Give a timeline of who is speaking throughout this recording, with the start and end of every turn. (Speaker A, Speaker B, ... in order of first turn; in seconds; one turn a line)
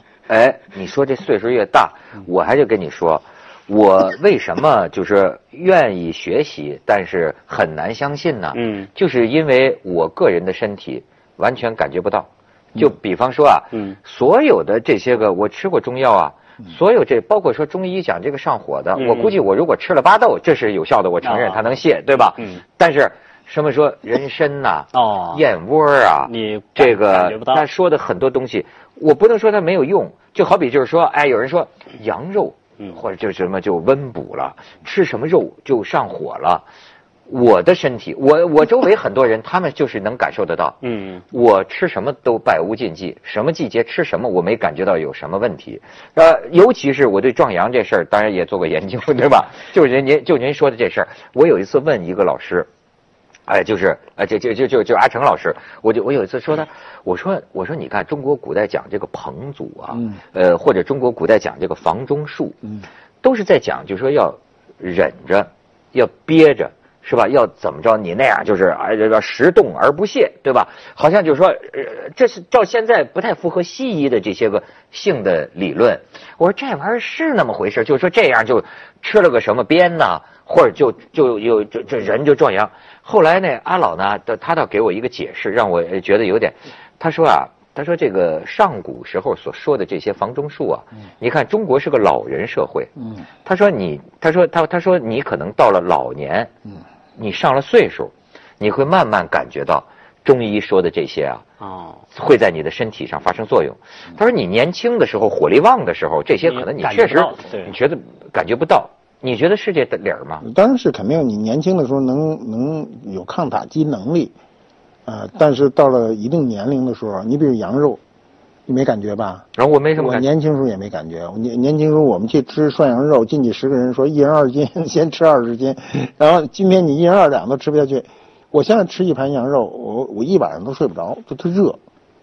Speaker A: 0.3-36.6
Speaker B: 8.5-8.9
Speaker B: 19.0-19.4
Speaker B: 21.2-21.6
Speaker B: 24.9-25.4
Speaker B: 26.3-27.6
Speaker A: 37.3-40.8
Speaker B: 40.8-41.2
Speaker A: 41.3-52.7
Speaker A: 53.5-62.6
Speaker A: 63.2-92.9
Speaker A: 93.5-96.5
Speaker A: 97.2-101.4
Speaker B: 101.6-102.0
Speaker A: 102.1-110.4
Speaker B: 106.5-107.7
Speaker C: 110.4-114.3
Speaker C: 115.1-118.0
Speaker C: 118.7-131.8
Speaker A: 119.6-120.3